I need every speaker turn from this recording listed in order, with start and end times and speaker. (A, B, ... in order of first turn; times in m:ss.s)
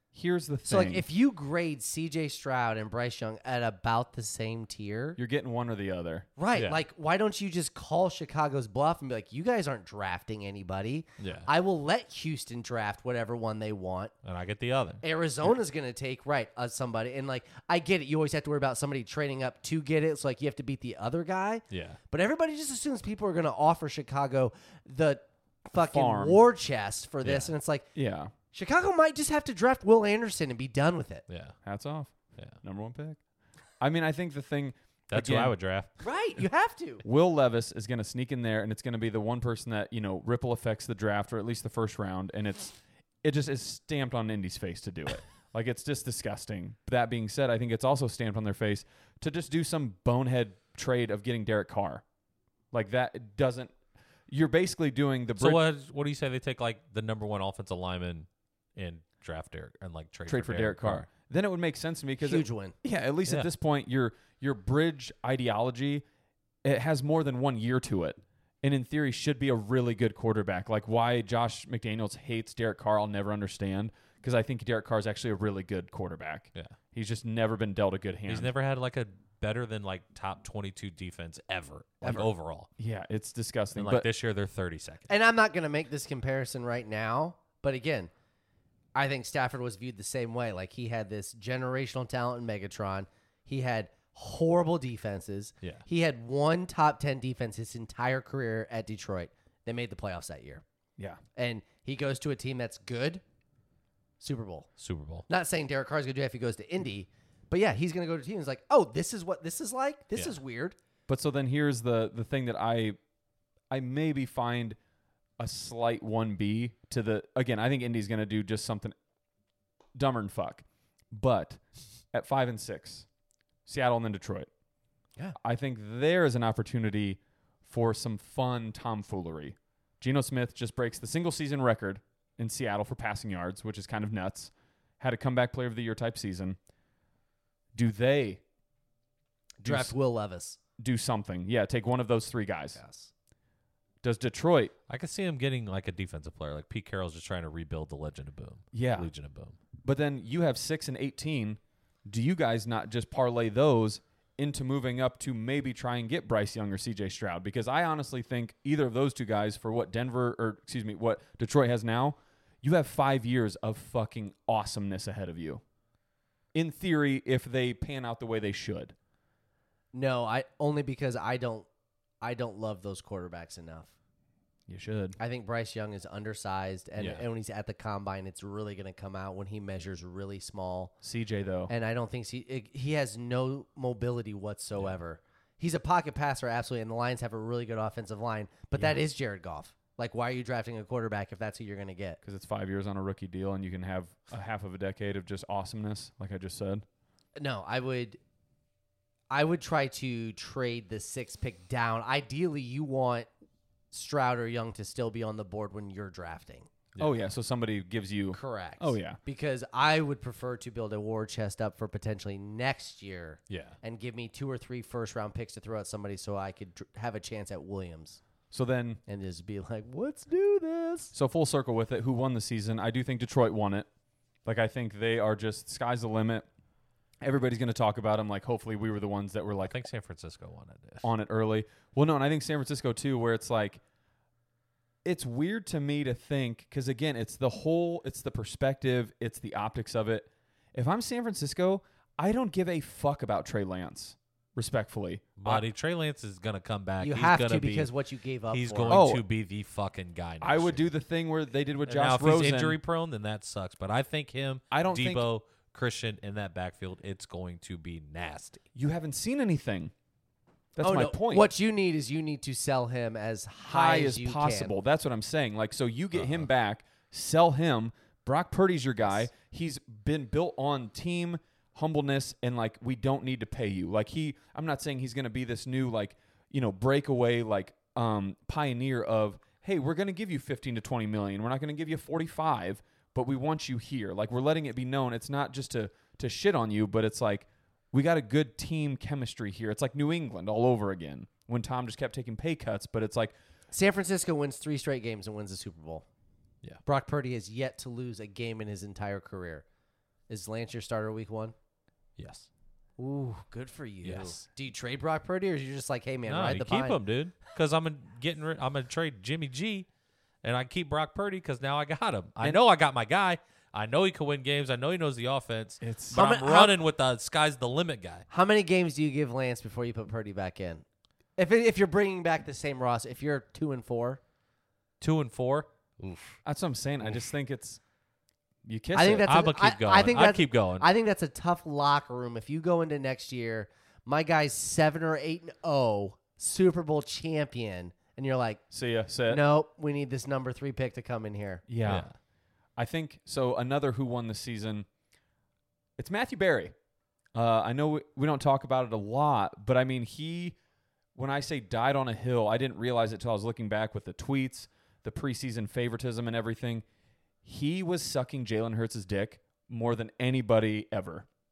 0:00.1-0:01.0 A
0:00.6-0:05.2 B
0:05.2-0:06.3 A
0:06.4-0:14.1 B
0:06.5-0:06.8 C
0:11.2-0:11.5 C
0:14.2-0:15.0 C
0:15.0-0:27.9 B
0:21.7-0:22.0 C
0:25.8-0:26.4 A
0:27.2-0:27.5 C
0:27.9-0:28.3 A
0:28.5-0:31.2 B
0:31.3-0:31.6 C
0:31.6-0:33.2 A
0:33.8-0:35.6 A
0:35.1-0:35.9 C
0:36.0-0:37.0 B
0:37.0-0:52.0 A
0:52.7-0:53.7 A
0:54.3-0:55.6 A
0:55.4-1:01.1 C
1:00.3-1:06.0 A
1:02.2-1:02.7 B
1:06.6-1:18.5 A
1:18.3-1:22.7 C
1:22.8-1:24.1 A
1:23.7-1:25.1 C
1:25.1-1:28.1 B
1:28.9-1:40.6 B
1:41.4-1:43.2 B
1:44.2-1:44.7 B
1:44.8-1:45.2 C
1:45.3-1:50.8 B
1:51.1-1:53.0 A
1:53.7-1:54.8 A
1:55.4-1:58.9 A
1:59.9-2:01.6 A
2:02.1-2:03.1 A
2:03.6-2:04.5 A
2:05.4-2:16.6 A
2:17.7-2:18.4 A
2:19.6-2:20.6 B
2:19.6-2:19.9 A
2:20.8-2:22.8 A
2:22.8-2:23.1 B
2:24.0-2:24.7 A
2:24.9-2:29.6 C
2:28.7-2:29.1 A
2:29.8-2:45.6 A
2:46.5-2:48.9 A
2:49.9-2:51.7 B
2:52.2-2:53.9 B
2:54.7-2:55.2 A
2:55.2-3:00.9 B
2:57.0-2:57.2 C
3:01.0-3:01.7 A
3:01.7-3:12.2 B
3:12.2-3:16.8 A
3:17.4-3:18.2 B
3:19.3-3:23.3 B
3:23.9-3:26.7 B
3:27.0-3:29.2 A
3:28.3-3:38.2 B
3:33.5-3:33.8 C
3:38.5-3:39.0 A
3:39.1-3:41.1 B
3:41.1-3:43.9 A
3:44.4-3:46.4 A
3:47.2-3:49.8 A
3:49.7-3:51.1 C
3:51.0-3:53.8 A
3:55.0-4:05.6 A
4:05.4-4:07.9 C
4:07.0-4:09.1 B
4:08.5-4:10.9 C
4:08.9-4:09.2 A
4:10.4-4:12.8 A
4:11.9-4:18.6 C
4:14.7-4:15.2 A
4:18.7-4:19.9 A
4:20.8-4:21.5 A
4:20.8-4:24.7 B
4:23.6-4:53.3 A
4:53.7-4:56.1 B
4:56.8-4:59.6 B
5:00.3-5:01.6 B
5:02.2-5:02.5 C
5:03.0-5:07.0 B
5:04.0-5:04.4 C
5:06.3-5:09.9 C
5:10.4-5:18.2 C
5:15.8-5:16.3 A
5:16.1-5:16.7 B
5:18.3-5:20.8 B
5:21.4-5:24.2 B
5:25.0-5:26.4 C
5:26.4-5:27.8 A
5:28.6-5:29.3 A
5:28.9-5:38.6 B
5:29.2-5:30.9 C
5:38.7-5:39.4 A
5:39.3-5:41.6 B
5:41.7-5:42.1 A
5:41.8-5:42.1 C
5:42.8-5:44.9 A
5:46.0-5:46.7 A
5:47.3-5:50.6 A
5:51.1-5:56.8 A
5:57.4-6:01.3 A